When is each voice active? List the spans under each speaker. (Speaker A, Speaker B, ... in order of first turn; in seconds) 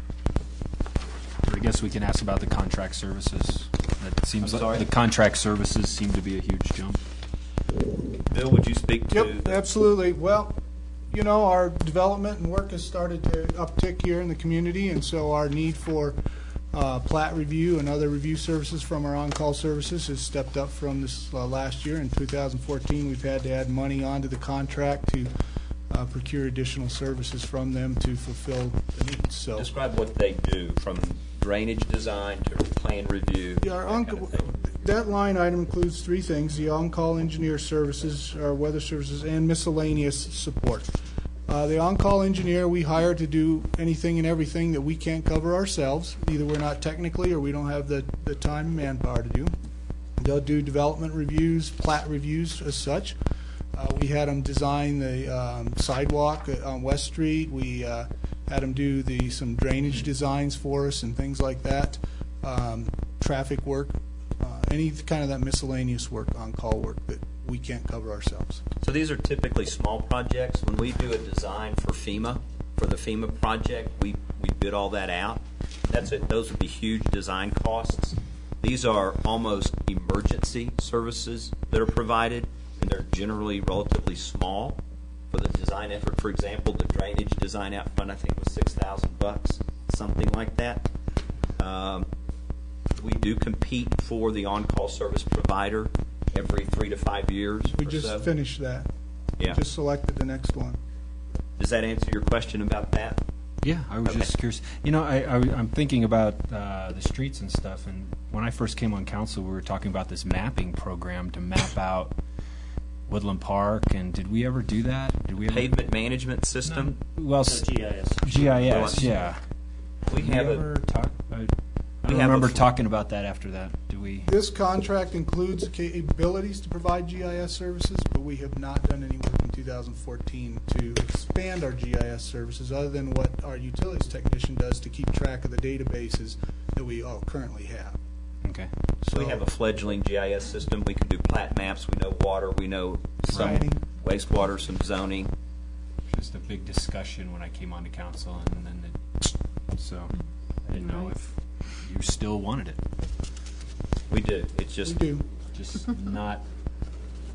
Speaker A: 1.4-7.0, 103.6-112.1, 113.1-115.7, 116.6-117.7, 118.2-119.4, 120.1-121.5, 122.0-124.3, 138.4-138.7, 143.3-143.7, 146.1-150.2, 150.7-152.8, 155.5-156.4
Speaker B: 4.4-4.9, 8.3-9.5, 29.5-34.5, 68.8-90.9, 91.6-92.1, 93.0-98.3, 101.6-103.2, 104.0-104.3, 115.5-117.0, 118.6-119.1, 120.1-120.7, 122.0-122.7, 139.0-145.3, 154.1-155.0
Speaker C: 9.1-10.6, 11.1-16.2, 16.7-25.3, 25.9-29.7, 33.6-40.9, 41.5-49.5, 50.2-53.1, 53.7-68.6, 97.7-98.9, 99.4-100.8, 124.2-138.0, 139.1-139.4, 143.2-143.8, 154.8-155.2
Speaker D: 34.0-34.8, 117.5-119.0